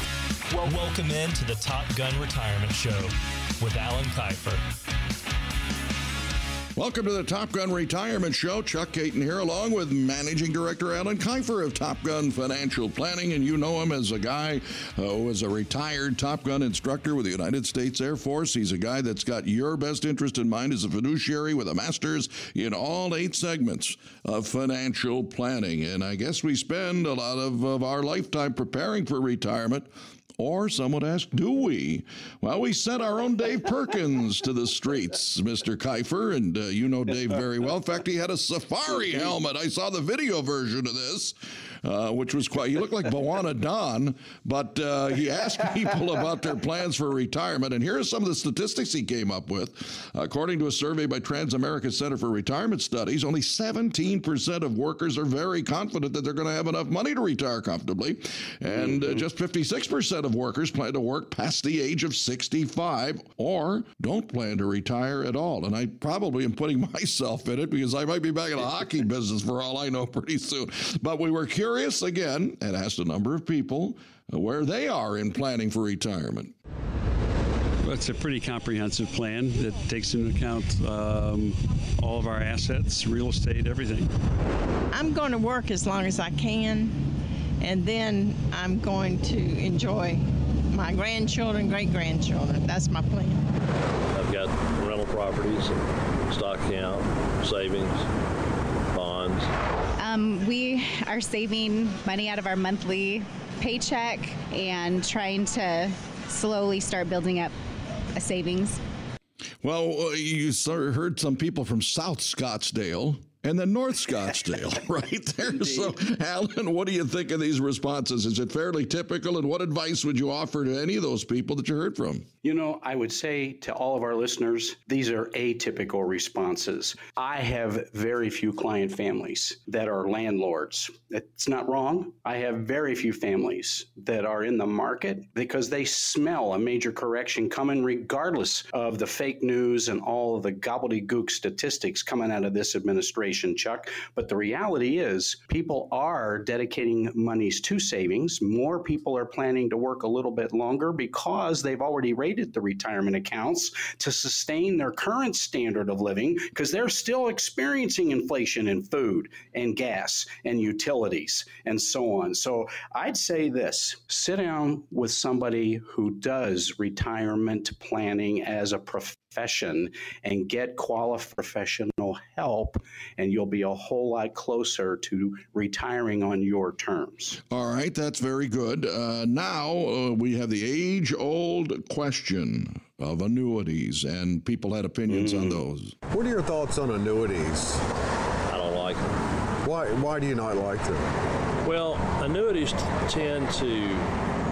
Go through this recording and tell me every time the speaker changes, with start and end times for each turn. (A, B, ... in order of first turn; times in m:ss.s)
0:00.5-0:04.6 A
0:06.8-1:16.5 B
1:17.8-1:24.1 C
1:24.9-1:27.0 D
1:27.6-1:33.5 D
1:34.1-1:38.1 E
1:38.9-1:39.5 E
1:40.0-1:47.5 F
1:48.2-1:48.8 F
1:49.6-2:02.3 B
1:55.5-1:55.9 G
2:02.4-2:57.4 G
2:57.5-3:06.0 B
3:05.1-3:05.6 G
3:06.1-3:07.8 H
3:08.5-3:09.2 E
3:09.6-3:11.1 H
3:11.6-3:14.2 E